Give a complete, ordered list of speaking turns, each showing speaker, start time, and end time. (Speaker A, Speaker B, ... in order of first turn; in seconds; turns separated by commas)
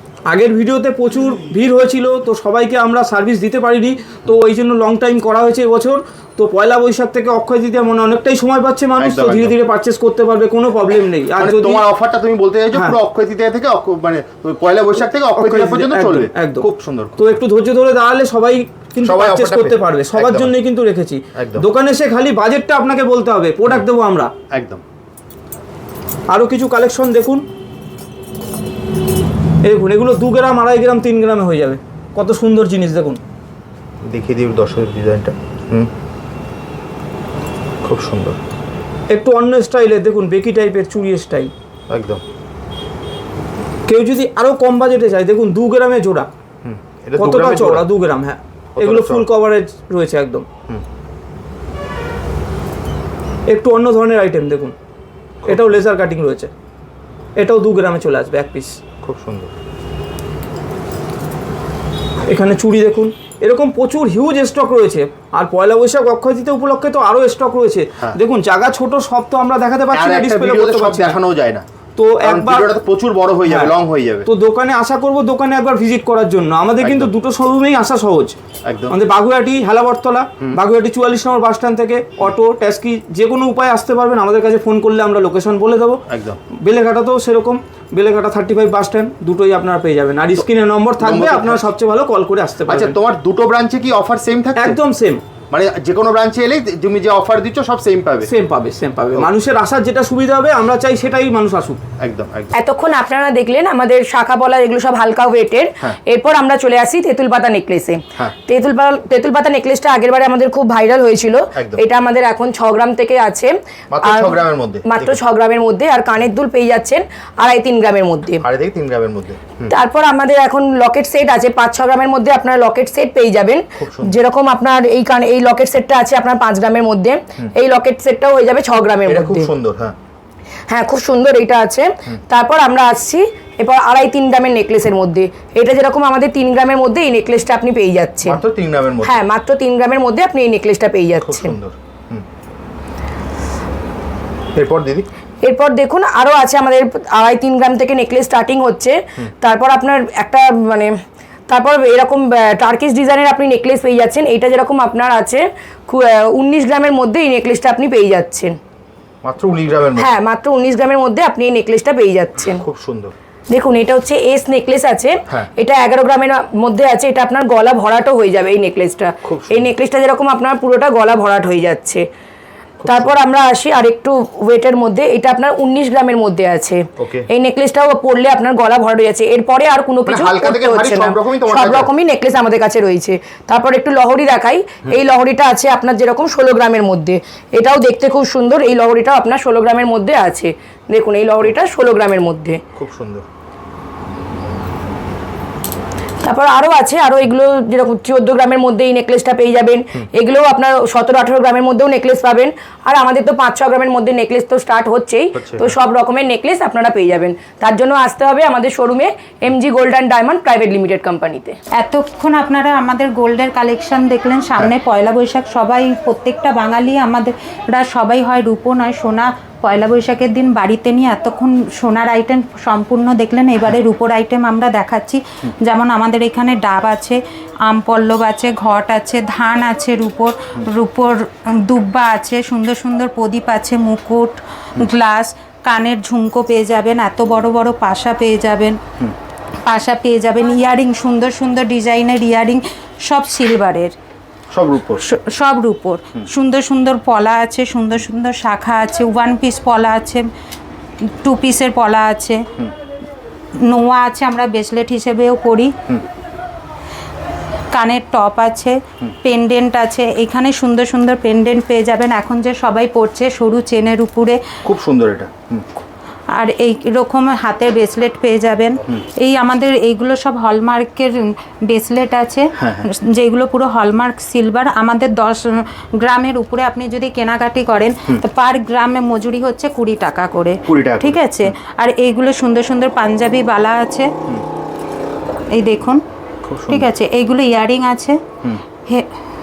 Speaker A: 0.3-11.8, Speaker B: 9.0-9.6, Speaker B: 11.4-17.4, Speaker A: 15.4-24.3, Speaker B: 19.0-20.5, Speaker B: 21.4-21.7, Speaker B: 24.5-24.8, Speaker A: 26.3-27.4, Speaker A: 29.6-33.2, Speaker B: 34.1-35.9, Speaker B: 37.8-38.4, Speaker A: 39.1-41.5, Speaker B: 41.9-42.2, Speaker A: 43.9-46.3, Speaker B: 46.6-47.9, Speaker A: 47.2-50.5, Speaker B: 48.8-49.3, Speaker A: 53.5-54.7, Speaker B: 55.4-55.7, Speaker A: 55.5-56.5, Speaker A: 57.4-58.8, Speaker B: 59.0-59.5, Speaker A: 62.3-71.2, Speaker B: 69.9-71.7, Speaker A: 72.0-72.7, Speaker B: 72.2-74.3, Speaker A: 73.5-73.7, Speaker A: 74.2-78.3, Speaker B: 76.8-77.1, Speaker B: 78.7-79.0, Speaker A: 78.9-86.0, Speaker B: 86.1-86.4, Speaker A: 86.5-93.0, Speaker B: 91.0-91.7, Speaker B: 92.7-94.8, Speaker A: 94.6-95.2, Speaker B: 95.5-98.3, Speaker A: 98.2-101.8, Speaker B: 102.0-102.5, Speaker C: 102.5-118.4, Speaker B: 111.5-111.8, Speaker B: 113.9-115.2, Speaker B: 118.4-119.8, Speaker C: 119.7-129.5, Speaker B: 123.8-124.2, Speaker B: 129.1-129.9, Speaker C: 130.7-138.4, Speaker B: 138.3-139.2, Speaker C: 139.0-141.6, Speaker B: 141.2-142.3, Speaker B: 144.6-145.1, Speaker C: 145.4-150.9, Speaker C: 151.5-158.6, Speaker B: 159.2-160.1, Speaker C: 160.0-162.6, Speaker B: 162.4-163.1, Speaker C: 163.5-172.1, Speaker B: 169.2-169.7, Speaker B: 172.8-173.2, Speaker C: 172.9-192.6, Speaker B: 177.0-177.3, Speaker B: 180.1-181.9, Speaker B: 192.8-193.3, Speaker C: 196.2-211.6, Speaker B: 205.3-205.8, Speaker D: 211.7-238.8, Speaker D: 239.7-243.9, Speaker B: 244.5-245.1, Speaker D: 245.0-250.3, Speaker D: 251.2-252.4, Speaker D: 253.6-255.7, Speaker D: 257.7-264.4, Speaker B: 264.6-265.7, Speaker D: 266.3-284.1, Speaker B: 272.6-272.9, Speaker B: 280.7-281.6, Speaker D: 285.5-286.0, Speaker B: 286.4-286.9, Speaker D: 286.7-288.2